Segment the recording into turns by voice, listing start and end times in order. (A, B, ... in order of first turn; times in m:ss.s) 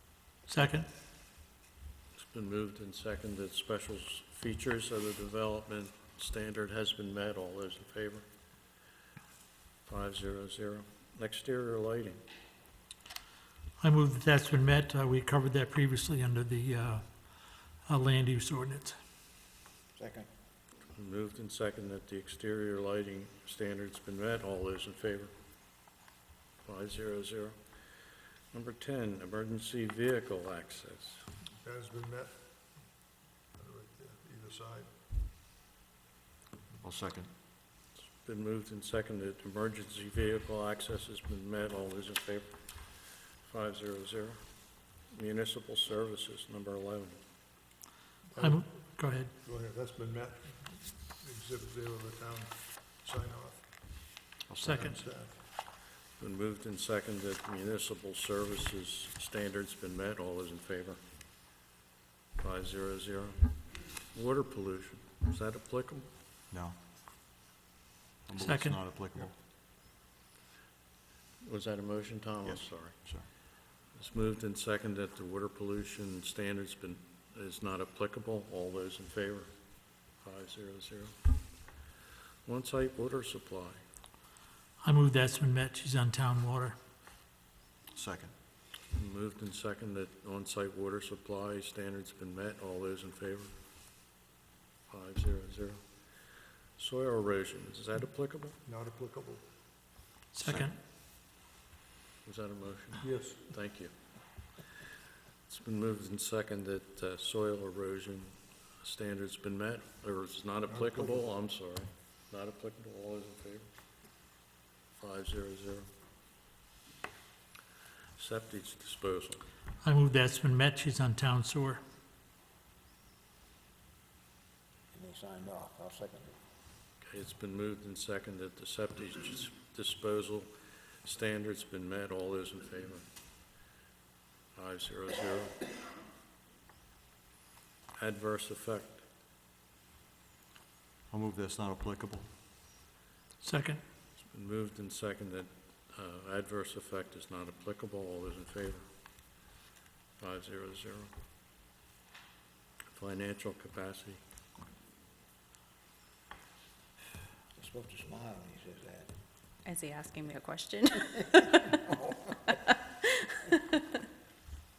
0:00.5-0:00.9 A
0:02.2-0:08.2 B
0:09.8-0:12.2 B
0:13.8-0:19.0 A
0:19.9-0:20.3 C
0:20.9-0:25.3 B
0:26.6-0:27.6 B
0:28.5-0:31.3 B
0:31.6-0:32.4 D
0:33.6-0:34.9 D
0:36.8-0:37.3 E
0:38.0-0:47.2 B
0:48.3-0:55.4 D
0:48.4-0:49.3 A
0:54.5-0:54.8 E
0:54.6-0:55.0 A
0:56.2-1:01.0 B
1:02.4-1:06.1 B
1:06.5-1:06.8 E
1:08.2-1:09.3 E
1:08.4-1:08.8 A
1:11.4-1:19.5 B
1:12.4-1:13.3 E
1:20.1-1:21.1 B
1:22.4-1:23.8 B
1:24.8-1:26.8 A
1:27.9-1:28.3 E
1:28.9-1:33.5 B
1:34.9-1:38.6 B
1:38.6-1:39.4 D
1:40.3-1:40.8 A
1:40.4-1:40.7 B
1:42.2-1:43.9 B
1:43.0-1:43.4 D
1:45.5-1:53.7 B
1:50.7-1:51.2 D
1:55.0-1:55.9 B
1:58.2-1:59.4 B
1:59.8-2:01.8 A
2:04.9-2:06.4 C
2:07.0-2:10.5 B
2:11.0-2:13.0 B
2:14.5-2:15.6 B
2:18.0-2:19.0 B
2:21.1-2:22.3 E
2:23.4-2:23.8 A
2:24.2-2:28.8 B
2:30.2-2:31.1 B
2:32.9-2:34.2 B
2:37.6-2:39.1 C
2:39.6-2:41.8 F
2:43.0-2:43.8 F